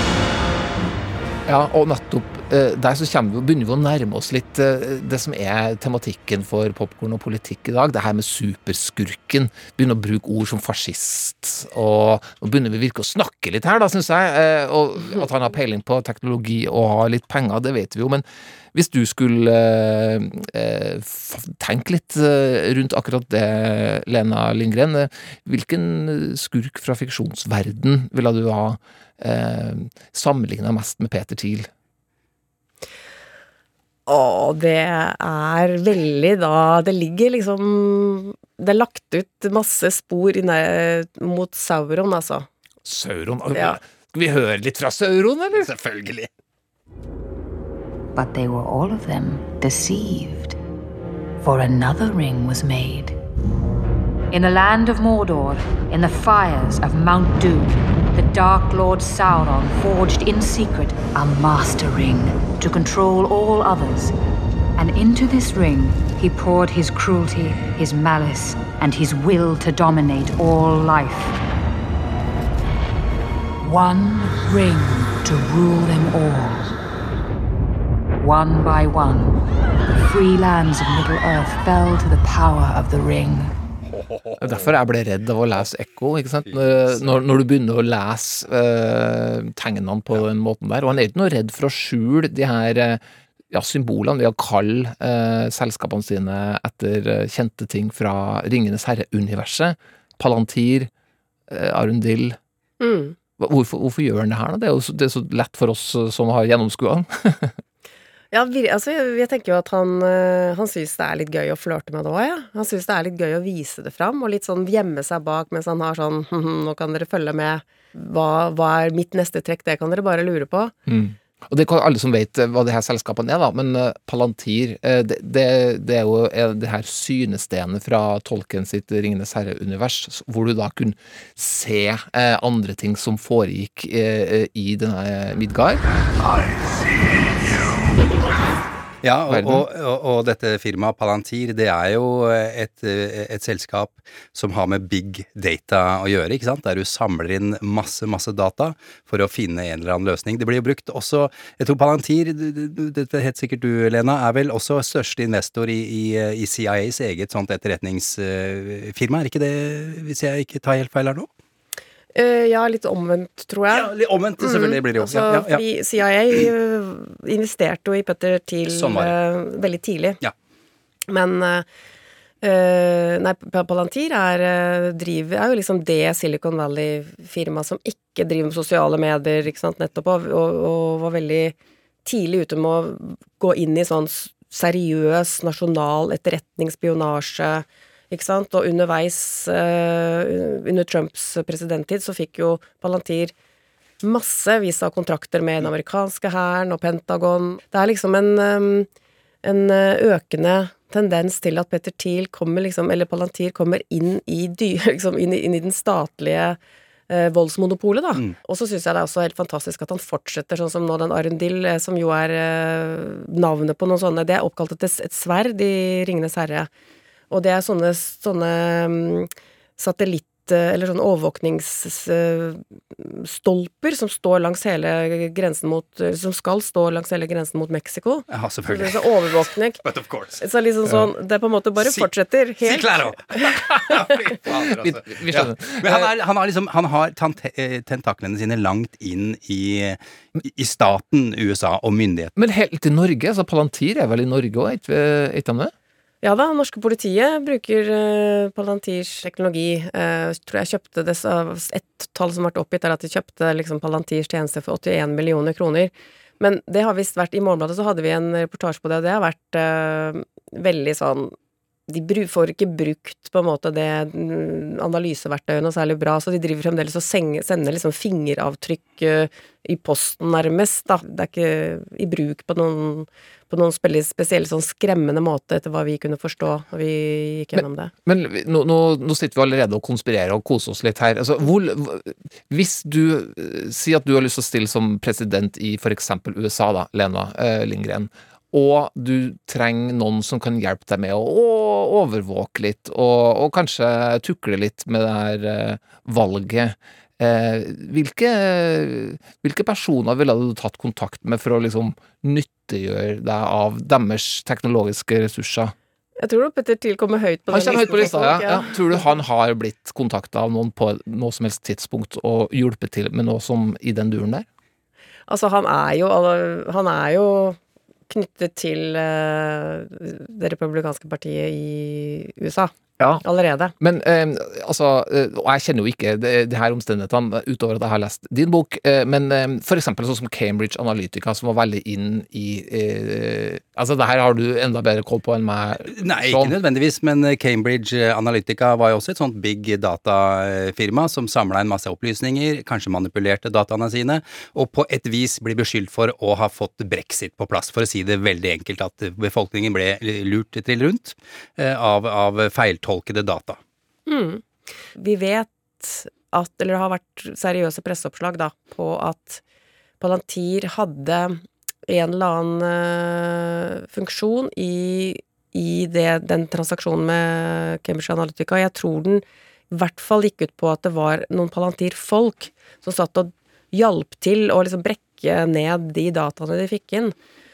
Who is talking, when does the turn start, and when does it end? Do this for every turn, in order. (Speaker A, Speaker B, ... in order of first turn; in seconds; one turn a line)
Speaker A: 1.5-31.7
Speaker B: 34.1-42.5
Speaker A: 42.8-45.7
Speaker C: 45.5-46.3
Speaker D: 48.1-50.6
Speaker D: 51.4-53.1
Speaker D: 54.3-64.2
Speaker D: 64.8-71.4
Speaker D: 73.6-76.8
Speaker D: 78.2-79.4
Speaker D: 80.0-83.5
Speaker C: 83.9-84.7
Speaker A: 84.4-100.9
Speaker C: 86.5-87.0
Speaker A: 101.5-102.4
Speaker B: 102.8-103.2
Speaker A: 103.4-107.6
Speaker B: 108.3-120.7
Speaker A: 120.8-135.8
Speaker C: 139.0-161.3
Speaker A: 139.3-139.7
Speaker B: 162.1-170.2
Speaker C: 163.7-165.6
Speaker C: 168.7-169.1
Speaker B: 171.1-171.7
Speaker B: 172.4-193.3
Speaker B: 194.0-198.9
Speaker B: 199.4-206.6
Speaker B: 207.1-216.7
Speaker B: 217.3-229.8
Speaker C: 228.3-230.4
Speaker B: 230.4-233.4
Speaker C: 231.8-232.1
Speaker C: 232.6-242.3
Speaker A: 234.5-236.1
Speaker A: 242.3-245.7
Speaker B: 246.2-261.3
Speaker B: 261.9-277.9
Speaker A: 277.6-305.7
Speaker B: 306.2-308.8
Speaker A: 307.5-314.4
Speaker B: 315.3-317.6
Speaker B: 318.1-323.7
Speaker A: 323.8-336.5
Speaker C: 335.8-353.6
Speaker B: 354.1-354.4
Speaker B: 354.9-359.4
Speaker B: 360.0-377.1